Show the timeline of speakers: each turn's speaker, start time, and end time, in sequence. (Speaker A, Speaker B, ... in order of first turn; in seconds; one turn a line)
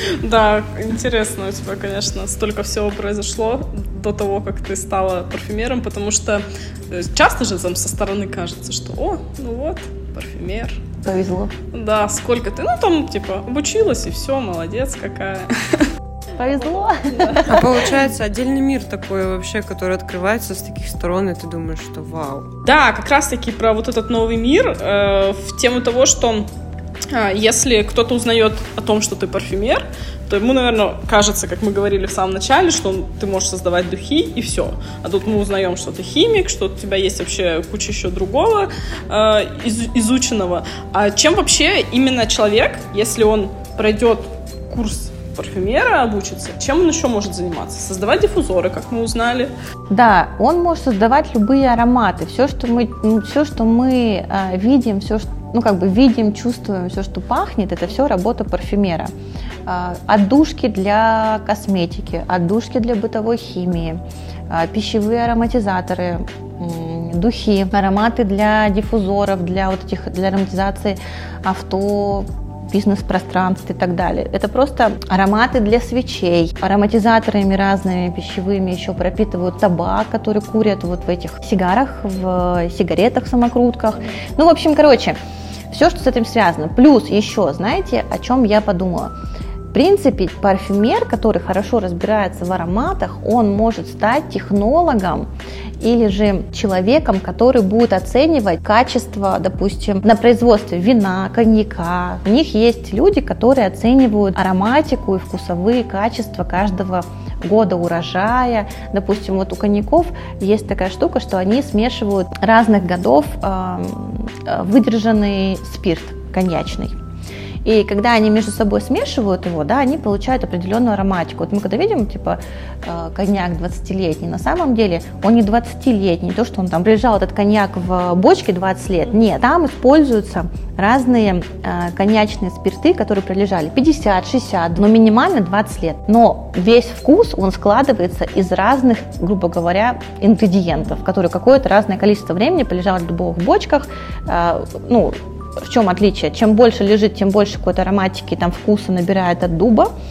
Speaker A: 0.2-10.8
Speaker B: 11.0-11.5
Speaker A: 11.7-15.9
Speaker B: 16.4-17.8
Speaker A: 17.1-17.5
Speaker C: 17.5-22.5
Speaker A: 22.7-26.5
Speaker A: 27.1-49.5
Speaker B: 49.9-59.1
Speaker B: 59.6-85.2
Speaker B: 85.7-89.1
Speaker B: 89.7-95.3
Speaker B: 95.8-117.0
Speaker B: 117.6-149.9